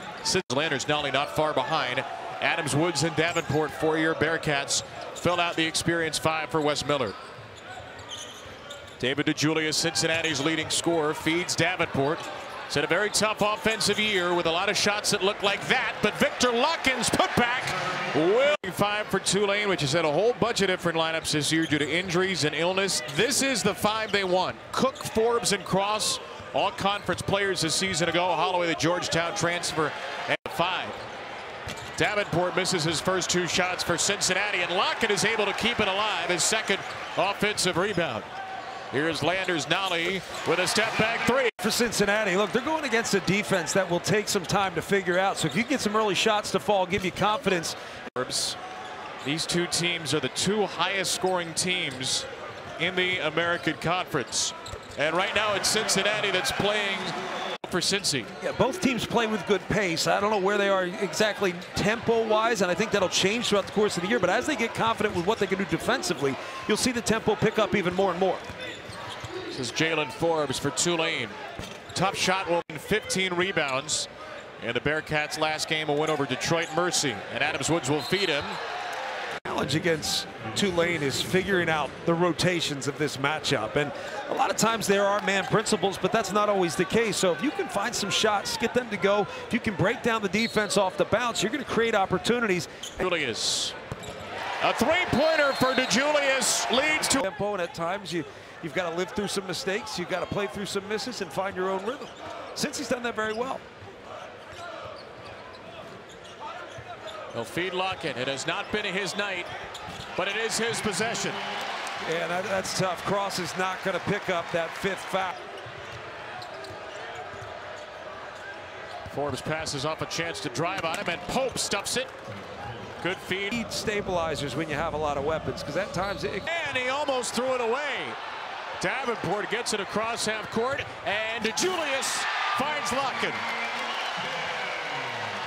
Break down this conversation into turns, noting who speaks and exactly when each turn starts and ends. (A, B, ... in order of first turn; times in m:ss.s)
0:00.2-0:07.1 A
0:09.0-0:31.0 A
0:32.0-0:38.3 A
0:38.9-0:41.5 A
0:41.6-0:47.8 B
0:48.2-0:48.6 A
0:49.2-0:52.3 A
0:52.8-0:58.3 A
0:58.4-1:08.4 B
1:09.5-1:11.4 A
1:11.9-1:18.6 A
1:19.4-1:33.0 B
1:33.0-1:33.8 A
1:34.6-1:37.2 A
1:37.2-1:43.6 B
1:47.3-1:49.5 A
1:50.1-1:51.4 A
1:52.0-1:55.4 B
1:59.1-2:02.1 A
2:03.0-2:03.6 A
2:03.5-2:06.4 B
2:06.4-2:08.2 A
2:08.8-2:13.4 A